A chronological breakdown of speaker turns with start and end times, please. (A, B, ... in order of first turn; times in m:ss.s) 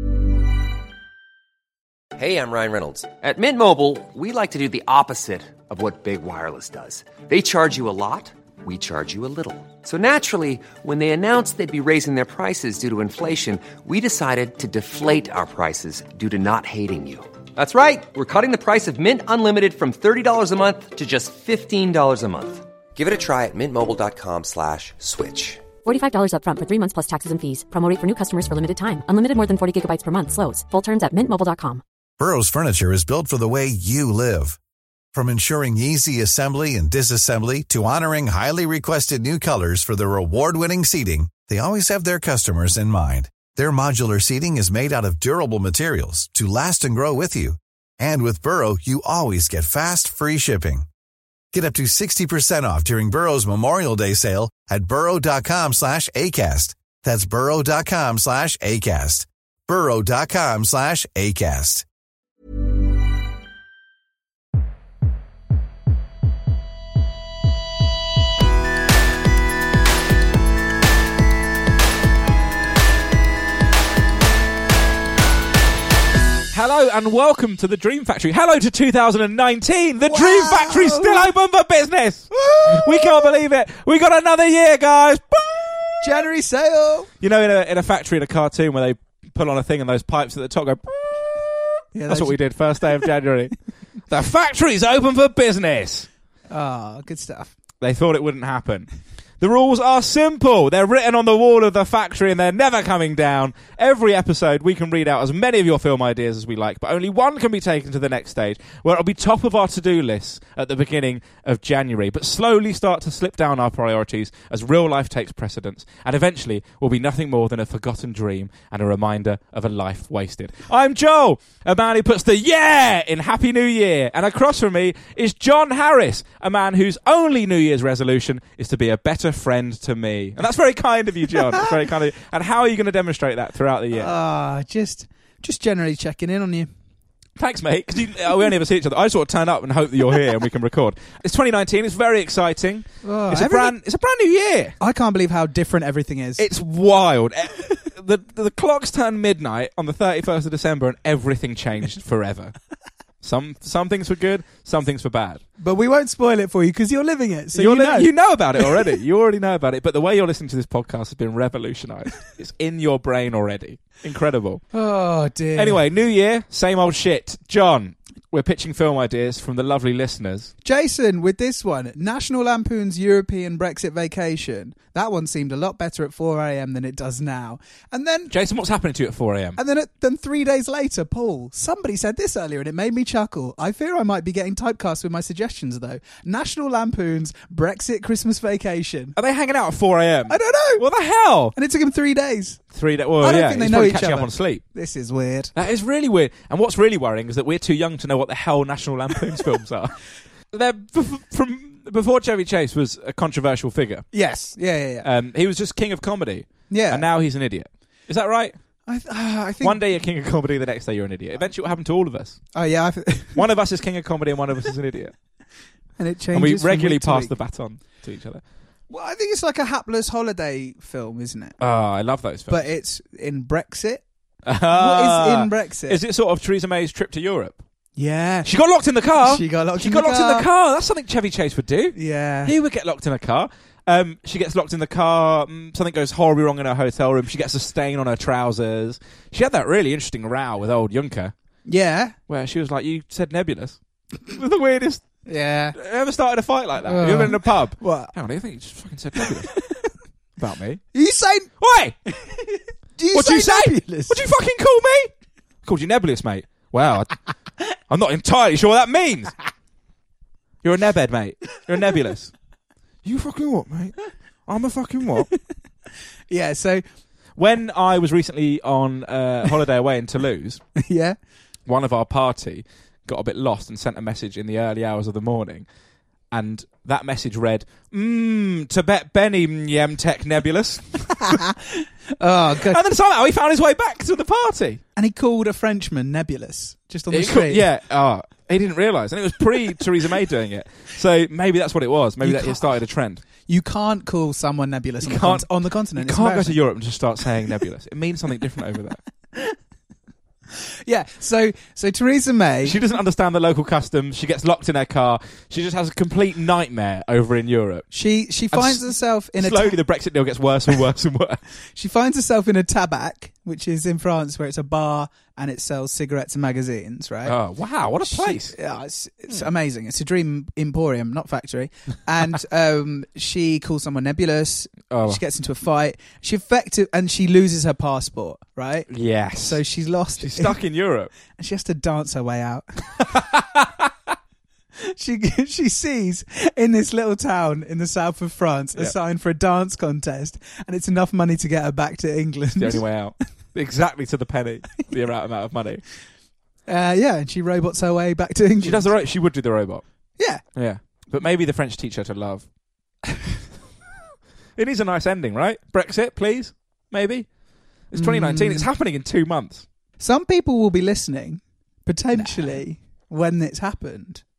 0:02.2-0:25.7 A
0:25.8-0:31.8 B
0:32.2-0:34.6 C
0:35.1-0:50.9 C
0:51.5-1:01.8 C
1:16.5-1:25.9 D
1:20.1-1:21.3 E
1:22.3-1:23.3 E
1:26.0-1:27.1 E
1:27.2-1:30.8 D
1:31.9-1:32.4 E
1:32.1-1:36.1 D
1:36.5-1:37.5 E
1:37.8-1:38.9 D
1:39.4-2:14.1 D
2:13.9-2:16.7 E
2:17.4-2:24.8 D
2:23.0-2:23.8 E
2:24.8-2:26.4 E
2:26.4-2:32.6 D
2:33.2-2:35.4 D
2:35.6-2:38.1 E
2:37.5-2:44.6 D
2:44.7-2:45.8 E
2:45.6-2:50.5 D
2:50.6-2:58.3 E
2:58.3-2:59.6 D
2:59.6-3:09.2 E
3:09.2-3:11.6 D
3:10.3-3:10.8 E
3:11.6-3:12.6 E
3:12.7-3:14.6 D
3:13.2-3:15.5 E
3:15.6-3:20.0 D
3:20.5-3:24.1 D
3:24.1-3:25.1 E
3:25.0-3:28.6 D
3:26.7-3:27.0 E
3:28.9-3:29.8 E
3:29.6-3:32.4 D
3:32.6-3:33.4 E
3:33.4-3:35.1 D
3:36.0-3:37.3 E
3:36.3-3:38.4 D
3:38.9-3:41.6 E
3:41.6-3:42.6 D
3:42.5-3:44.0 E
3:44.5-3:47.6 D
3:44.7-3:46.0 E
3:48.0-3:48.5 E
3:48.4-4:01.3 D
3:49.2-3:50.5 E
3:52.0-3:52.5 E
4:01.7-4:02.2 E
4:02.3-4:05.1 D
4:05.3-4:05.8 E
4:05.8-4:09.6 D
4:06.8-4:08.1 E
4:10.4-4:10.8 D
4:10.9-4:11.5 E
4:11.6-4:12.0 D
4:12.1-4:14.2 E
4:13.1-4:15.1 D
4:15.6-4:17.2 D
4:17.9-4:19.4 D
4:20.6-4:22.3 D
4:23.0-4:25.3 D
4:26.3-4:26.8 E
4:27.4-4:30.6 D
4:30.8-4:31.2 E
4:31.7-4:35.7 D
4:36.3-4:41.4 D
4:42.2-4:42.8 E
4:42.6-4:44.8 D
4:45.0-4:47.6 E
4:47.1-4:53.2 D
4:52.2-4:52.8 E
4:53.4-4:56.6 E
4:55.0-4:59.0 D
5:00.9-5:02.8 E
5:02.6-5:07.9 D
5:07.9-5:09.8 E
5:08.5-5:11.4 D
5:11.7-5:17.4 E
5:17.3-5:18.6 D
5:18.1-5:28.9 E
5:24.9-5:25.2 D
5:28.9-5:29.6 D
5:29.4-5:30.6 E
5:30.2-5:31.1 D
5:31.3-5:32.9 E
5:33.1-5:33.7 D
5:34.8-5:42.9 E
5:42.6-5:45.8 D
5:46.7-5:48.9 E
5:48.6-5:52.5 D
5:50.2-5:50.4 E
5:54.6-5:59.7 D
5:57.9-5:58.7 E
6:00.0-6:04.2 E
6:02.1-6:02.6 D